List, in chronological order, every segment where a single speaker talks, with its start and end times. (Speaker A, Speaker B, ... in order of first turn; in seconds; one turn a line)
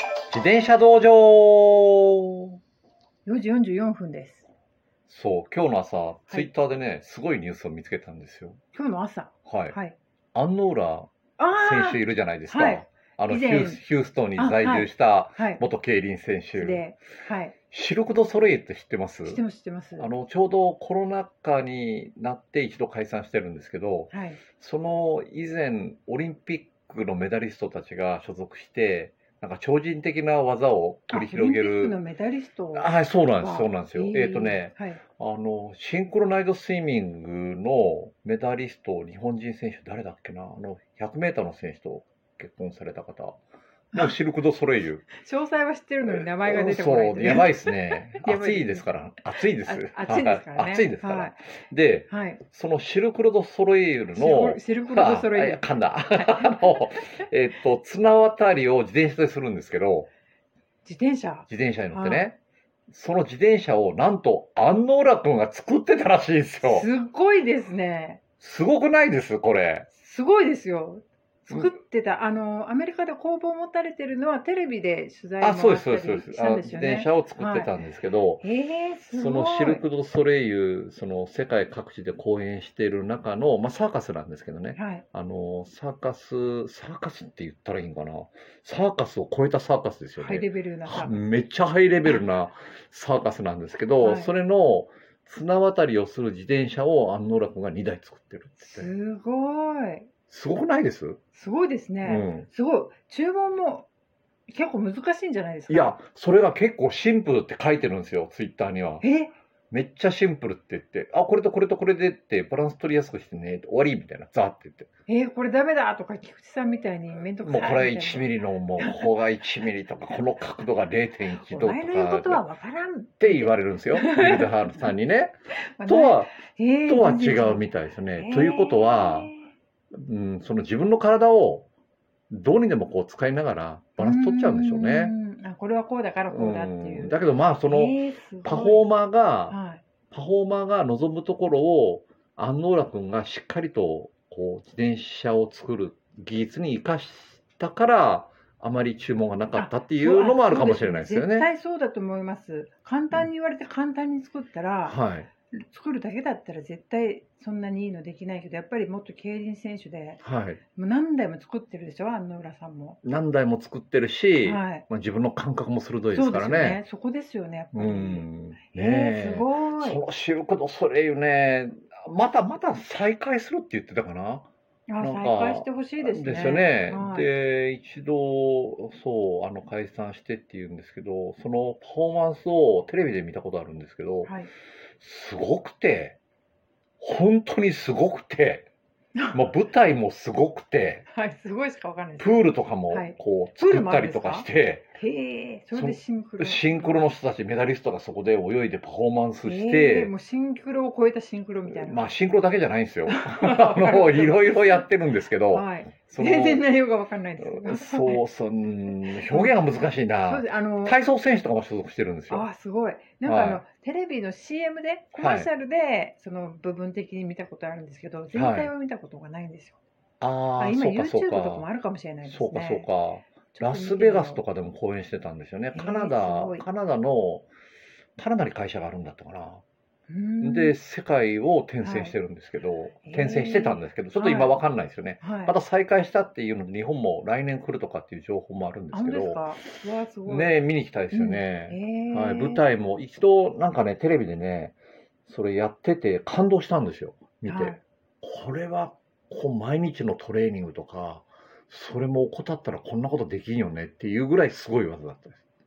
Speaker A: 0.3-2.6
Speaker B: 3.2-4.5
Speaker A: 5.1-8.6
Speaker B: 8.7-9.9
Speaker A: 9.4-9.8
Speaker A: 10.3-16.9
Speaker B: 11.4-13.8
Speaker B: 14.3-15.6
Speaker B: 16.5-17.5
Speaker A: 17.7-19.4
Speaker B: 19.2-20.1
Speaker A: 20.0-32.0
Speaker B: 24.1-24.4
Speaker B: 31.1-35.0
Speaker A: 32.7-43.4
Speaker A: 43.9-45.1
Speaker B: 45.1-48.9
Speaker A: 46.0-60.1
Speaker B: 49.6-51.4
Speaker B: 52.1-52.4
Speaker B: 54.1-57.0
Speaker B: 60.8-62.3
Speaker A: 61.5-62.4
Speaker A: 62.9-66.9
Speaker B: 66.6-68.2
Speaker A: 68.4-69.9
Speaker B: 69.9-77.7
Speaker A: 75.4-78.4
Speaker B: 78.4-79.8
Speaker A: 79.1-98.9
Speaker B: 84.7-85.0
Speaker B: 90.2-91.2
Speaker B: 94.0-94.3
Speaker B: 98.6-100.1
Speaker A: 100.3-101.2
Speaker B: 101.3-103.9
Speaker A: 102.0-102.5
Speaker B: 104.5-106.0
Speaker A: 105.7-109.0
Speaker B: 109.0-109.3
Speaker A: 109.7-114.9
Speaker B: 115.1-119.1
Speaker A: 117.4-122.4
Speaker B: 121.4-124.9
Speaker A: 123.2-129.3
Speaker B: 125.8-129.5
Speaker A: 129.9-131.7
Speaker A: 132.3-135.1
Speaker B: 134.0-138.8
Speaker A: 136.3-139.6
Speaker B: 139.5-139.8
Speaker A: 140.1-151.5
Speaker B: 149.5-155.0
Speaker A: 154.8-155.3
Speaker B: 155.5-160.2
Speaker A: 160.2-160.6
Speaker B: 160.7-163.0
Speaker A: 163.0-166.8
Speaker B: 164.4-164.8
Speaker B: 166.1-170.0
Speaker A: 167.7-174.5
Speaker B: 174.9-177.3
Speaker A: 175.0-184.3
Speaker A: 185.0-186.2
Speaker A: 187.0-188.7
Speaker A: 189.3-191.0
Speaker B: 191.1-197.0
Speaker A: 192.2-194.9
Speaker A: 195.7-200.1
Speaker B: 199.4-202.0
Speaker A: 201.7-206.6
Speaker B: 203.1-204.8
Speaker B: 205.5-208.2
Speaker A: 207.4-212.4
Speaker B: 208.9-209.6
Speaker B: 210.2-211.0
Speaker B: 212.3-219.8
Speaker A: 213.2-213.6
Speaker A: 215.2-215.5
Speaker A: 218.3-218.7
Speaker A: 220.2-221.7
Speaker B: 220.6-222.9
Speaker A: 222.2-227.5
Speaker B: 223.5-224.4
Speaker B: 225.7-226.7
Speaker A: 228.2-229.6
Speaker B: 230.1-230.7
Speaker A: 230.4-239.5
Speaker B: 231.8-232.1
Speaker B: 233.0-234.5
Speaker B: 235.2-235.5
Speaker B: 238.9-240.5
Speaker A: 240.2-244.8
Speaker B: 241.1-242.6
Speaker A: 245.3-255.4
Speaker B: 247.4-247.8